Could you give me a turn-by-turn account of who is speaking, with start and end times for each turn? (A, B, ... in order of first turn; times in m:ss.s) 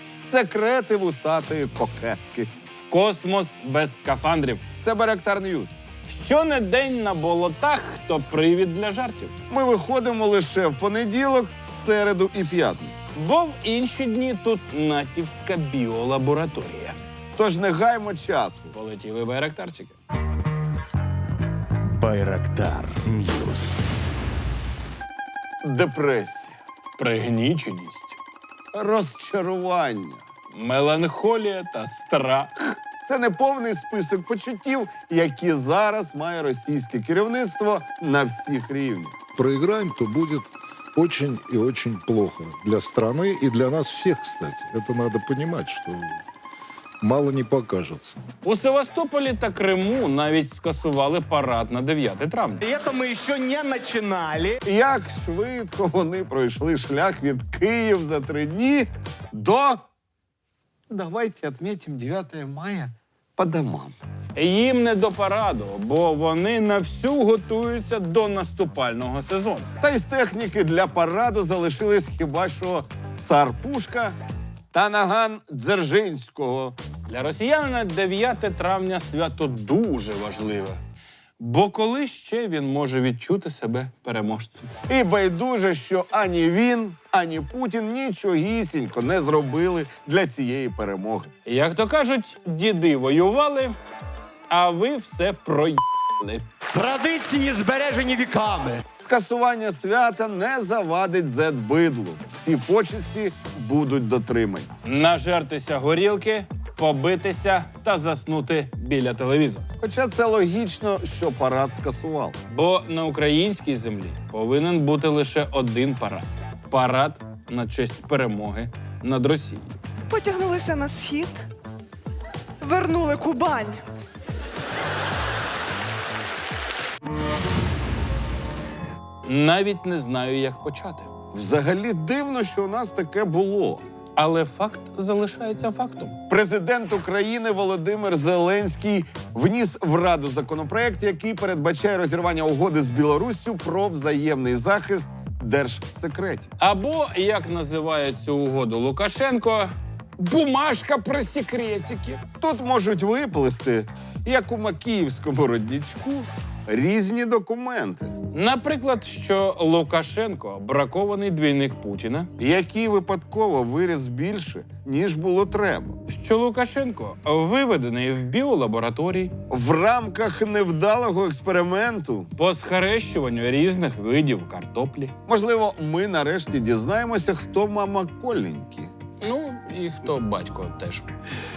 0:00.2-0:02.5 A
0:02.9-0:04.6 B
0:04.8-0:05.8 A
0:06.1-0:09.3 B
0:09.5-0:13.0 A
0:13.2-0:17.0 B
0:17.3-0:18.7 A
0:18.7-0:20.0 B
0:22.0-0:23.7 C
0:25.6-0:26.6 A
0:27.0-0:28.2 B
0:28.7-0:30.2 A
0:30.5-0:32.7 B
0:33.0-0:39.2 A
0:39.3-0:46.2 D
0:47.0-0:48.2 D
0:48.4-0:52.6 B
0:52.6-0:54.6 C
0:54.6-0:59.8 A
1:00.9-1:03.9 A
1:04.4-1:09.7 B
1:09.8-1:14.2 A
1:14.7-1:16.8 A
1:17.1-1:20.8 B
1:21.4-1:24.7 B
1:24.9-1:31.3 A
1:31.4-1:33.7 B
1:34.5-1:36.4 B
1:36.7-1:38.8 C
1:39.0-1:44.7 A
1:44.8-1:49.6 B
1:49.8-1:52.4 A
1:52.5-1:59.8 B
2:00.1-2:01.4 E
2:02.6-2:03.8 E
2:09.2-2:11.1 B
2:11.3-2:13.8 A
2:14.2-2:16.1 B
2:16.3-2:26.5 A
2:26.6-2:29.7 B
2:30.2-2:32.2 B
2:32.4-2:38.1 A
2:38.3-2:42.3 B
2:42.4-2:46.0 A
2:46.1-2:49.3 B
2:49.5-2:52.3 A
2:52.4-2:55.1 B
2:55.2-2:58.9 A
2:59.2-3:01.1 B